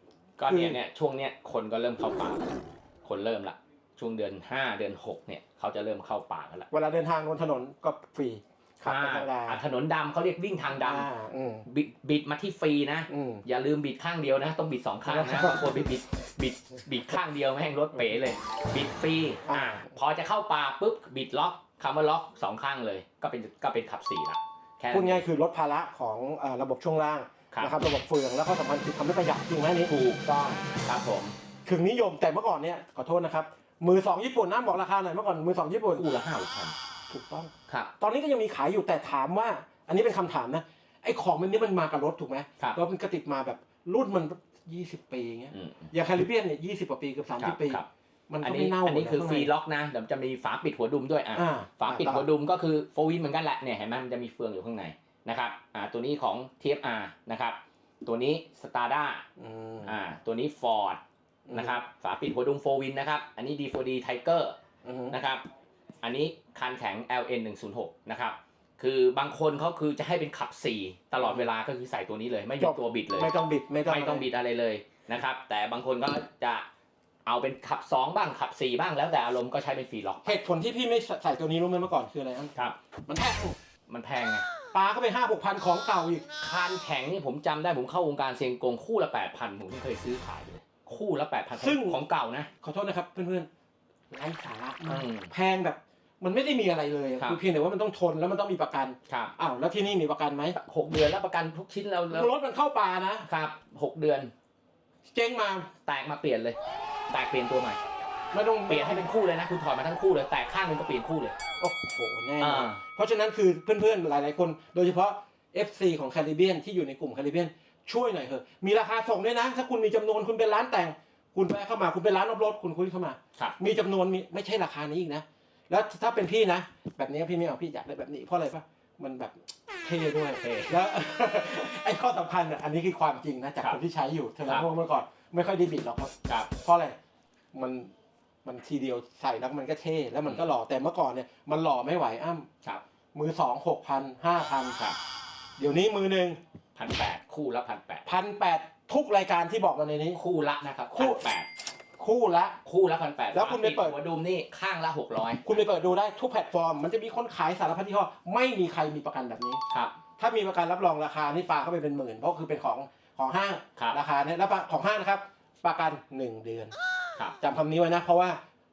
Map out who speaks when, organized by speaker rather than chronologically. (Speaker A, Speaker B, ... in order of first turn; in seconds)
Speaker A: 0.4-6.7, 8.8-11.1, 11.7-25.2, 27.5-27.8, 29.9-31.3, 35.9-36.7, 37.7-37.9, 45.5-45.9, 47.4-47.9, 48.4-59.2, 59.8-61.0, 61.5-64.5, 65.1-65.4, 66.0-73.3, 73.8-76.7, 77.2-80.4, 83.9-84.5, 86.4-92.5, 94.9-95.3, 99.1-99.3, 100.5-102.3, 103.2-104.3, 105.8-106.6, 107.1-107.8, 108.7-111.3, 112.4-112.8, 130.4-130.8, 146.7-148.1, 150.1-151.5, 152.6-155.7, 159.7-159.9
Speaker B: 0.4-0.8, 6.7-9.6, 10.8-11.7, 13.1-13.4, 15.0-15.7, 19.4-19.9, 24.9-29.9, 31.6-36.1, 37.1-49.5, 51.3-52.3, 59.4-59.9, 61.5-61.8, 64.8-65.2, 71.2-71.5, 72.6-74.2, 80.2-82.5, 83.1-83.5, 84.7-86.2, 91.5-92.0, 92.6-93.5, 94.1-100.6, 102.1-103.3, 105.0-105.7, 108.3-109.1, 111.6-136.1, 136.6-136.9, 137.5-137.9, 138.4-142.5, 143.1-144.8, 145.6-146.4, 148.1-150.2, 150.9-151.3, 152.0-152.6, 153.3-154.0, 155.4-159.6, 160.2-166.7, 167.4-168.4